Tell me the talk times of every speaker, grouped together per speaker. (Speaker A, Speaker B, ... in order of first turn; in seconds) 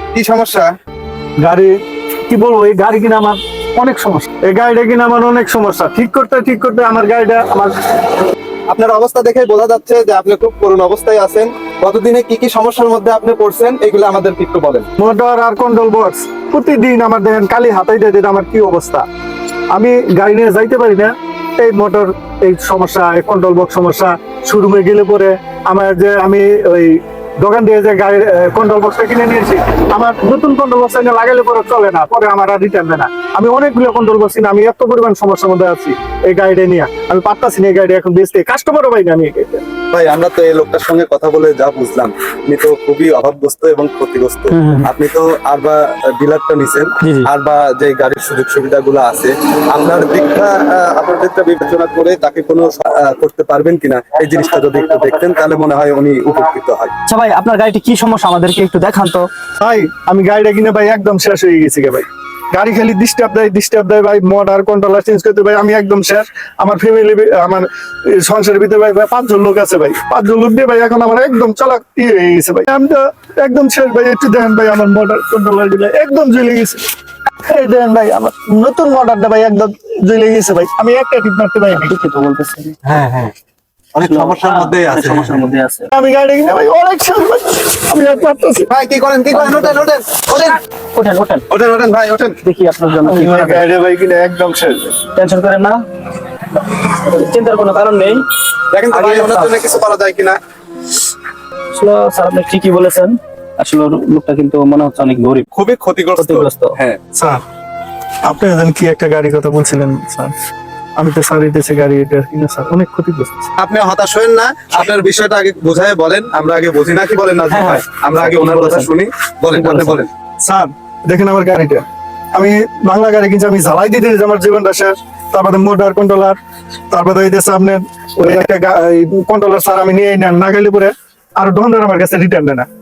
Speaker A: 0.1-0.7, 8.7-14.9, 39.9-56.9, 82.8-83.3, 83.9-85.4, 88.7-90.6, 91.5-92.3, 98.7-100.4, 105.5-107.0, 113.6-120.1
Speaker B: 1.4-1.7, 2.3-7.7, 15.0-19.0, 19.7-39.6, 59.6-76.8, 77.5-81.9, 85.9-88.7, 93.0-95.0, 107.1-107.4, 108.2-110.3, 111.0-113.5, 120.4-126.4, 126.9-132.7
Speaker C: 44.5-44.9, 47.0-47.3, 57.1-59.3, 81.7-82.8, 84.0-85.9, 89.3-89.8, 90.9-91.4, 92.4-93.6, 95.2-95.8, 96.8-98.2, 98.9-99.5, 101.7-105.5, 106.2-106.7, 117.5-118.9, 119.5-120.0